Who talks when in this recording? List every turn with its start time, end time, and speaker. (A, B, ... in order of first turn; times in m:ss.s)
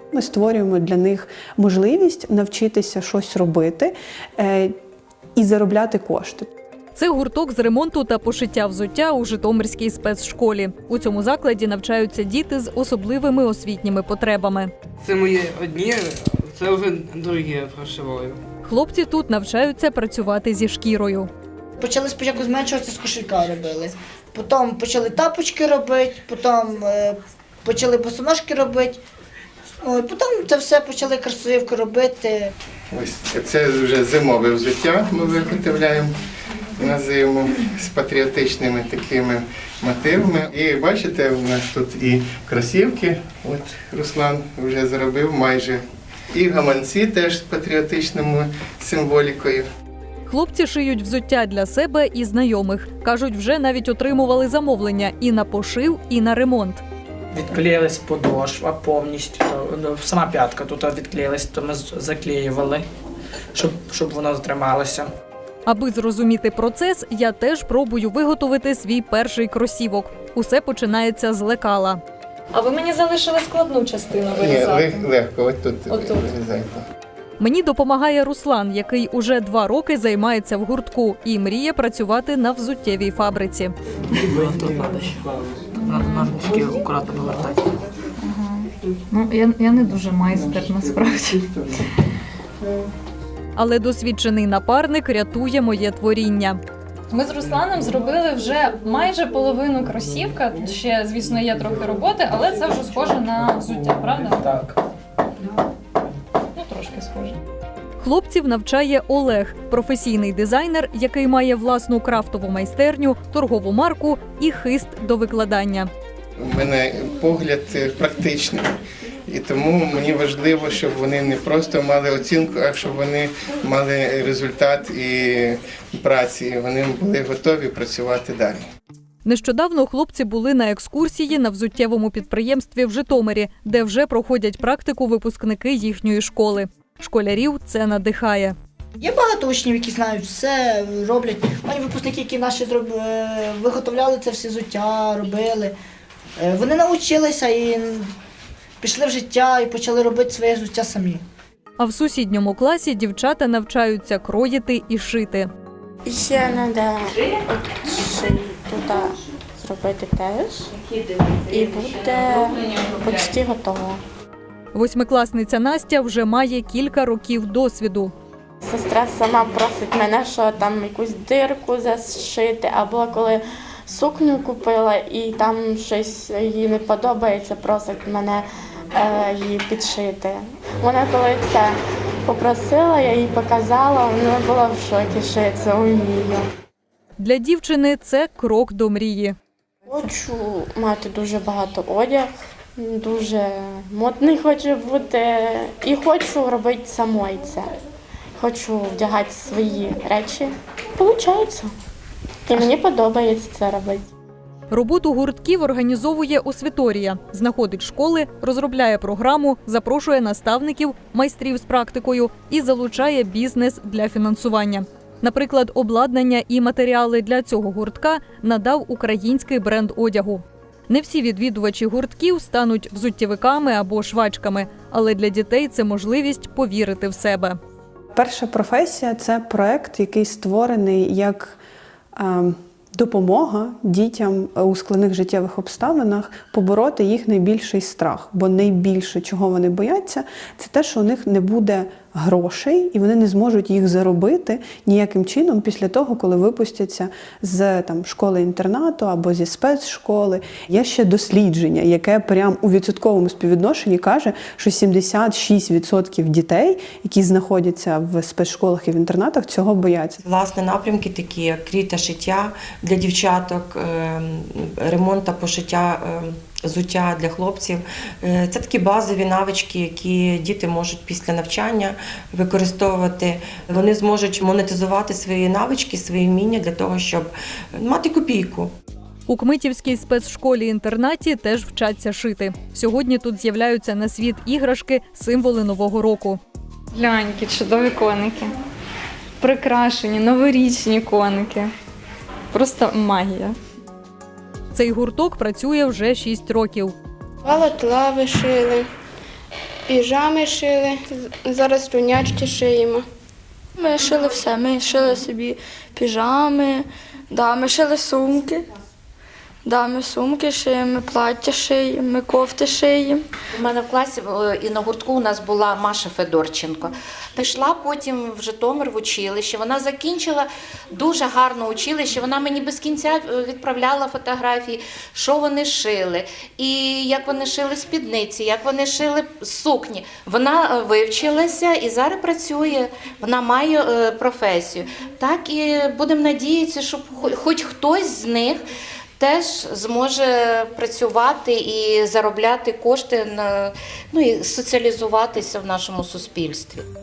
0:00.1-0:04.7 A
0:05.4-0:06.5 A
0:07.0-0:14.7 B
0:15.0-0:18.4 C
0:18.6-0:21.3 B
0:21.8-0:29.0 D
0:29.8-0:32.5 D
0:32.9-0:36.1 E
0:36.8-0:45.8 E
0:46.3-0:49.7 E
0:50.3-0:56.8 B
0:57.3-1:02.9 F
1:03.5-1:05.1 F
1:05.6-1:12.0 B
1:12.5-1:15.0 G
1:14.3-1:16.8 E
1:17.4-1:23.7 B
1:24.1-1:25.2 F
1:25.8-1:27.8 F
1:28.3-1:28.6 G
1:29.1-1:31.4 G
1:33.6-1:36.6 B
1:37.1-1:44.4 G
1:38.0-1:38.5 B
1:41.8-1:42.2 B
1:42.7-1:44.3 B
1:46.6-1:47.3 G
1:48.0-1:55.9 B
1:56.4-1:58.8 E
1:59.3-2:08.6 E
2:09.2-2:18.6 B
2:19.0-2:25.7 D
2:26.4-2:28.1 D
2:28.8-2:31.2 D
2:31.8-2:35.5 B
2:36.0-2:40.7 H
2:41.5-2:44.0 H
2:44.7-2:48.1 B
2:48.6-2:58.4 H
2:59.0-3:01.7 H
3:02.2-3:06.5 H
3:07.2-3:09.4 B
3:09.9-3:17.7 H
3:18.4-3:21.7 H
3:22.5-3:24.0 H
3:24.7-3:47.6 B
3:48.1-3:51.6 A
3:52.1-4:20.2 A
4:20.2-4:38.7 I
4:39.3-4:46.4 B
4:46.9-4:48.5 G
4:49.4-4:51.6 G
4:52.5-4:53.5 G
4:54.7-4:56.9 B
4:57.4-4:58.8 J
4:59.9-5:03.0 J
5:03.8-5:08.7 K
5:09.6-5:13.2 K
5:13.5-5:38.6 L
5:39.2-5:46.8 L